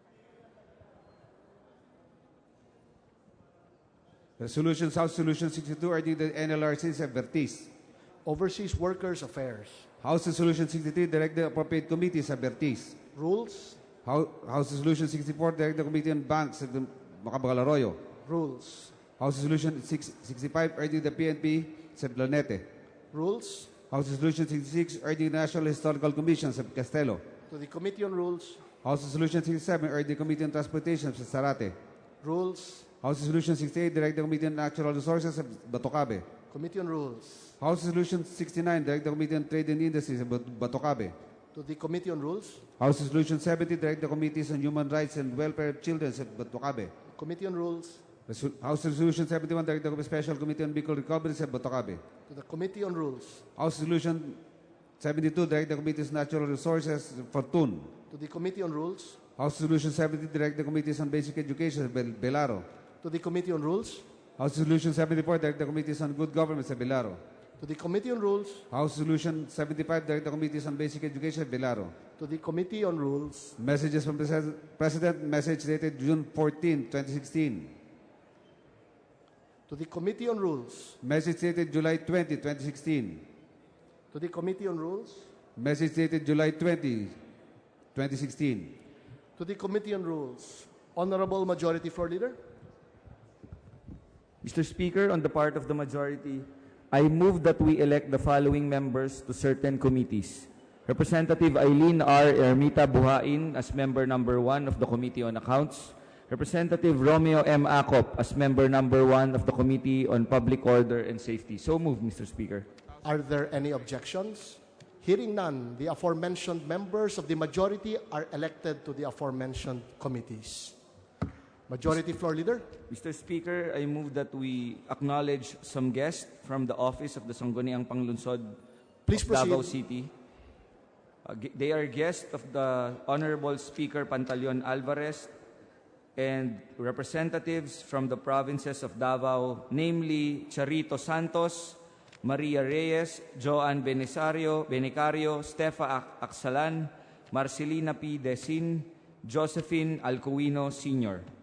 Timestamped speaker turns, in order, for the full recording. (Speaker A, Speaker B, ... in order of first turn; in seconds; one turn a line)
Speaker A: 4.4-7.7
Speaker B: 8.2-9.9
Speaker A: 10.0-13.0
Speaker B: 13.1-13.8
Speaker A: 14.1-18.0
Speaker B: 18.2-18.9
Speaker A: 19.2-22.7
Speaker B: 23.1-23.7
Speaker A: 23.9-27.2
Speaker B: 27.5-28.6
Speaker A: 28.8-31.8
Speaker B: 32.2-32.9
Speaker A: 33.0-36.3
Speaker B: 36.5-37.5
Speaker A: 37.6-41.1
Speaker B: 41.5-42.6
Speaker A: 42.8-46.9
Speaker B: 47.1-48.0
Speaker A: 48.3-52.0
Speaker B: 52.3-53.4
Speaker A: 53.6-54.4
Speaker A: 55.0-57.9
Speaker B: 58.1-59.2
Speaker A: 59.4-62.6
Speaker B: 63.0-64.0
Speaker A: 64.4-67.2
Speaker B: 67.6-68.7
Speaker A: 68.7-71.9
Speaker B: 72.2-73.6
Speaker A: 73.6-77.8
Speaker B: 79.7-81.0
Speaker A: 81.0-83.3
Speaker B: 84.1-85.3
Speaker A: 85.6-87.1
Speaker A: 88.0-88.8
Speaker B: 89.4-92.4
Speaker C: 94.4-112.7
Speaker B: 113.0-120.8
Speaker B: 121.7-122.7
Speaker C: 122.9-128.6
Speaker B: 129.1-129.8
Speaker C: 129.1-130.1
Speaker C: 131.2-135.3
Speaker C: 136.2-151.2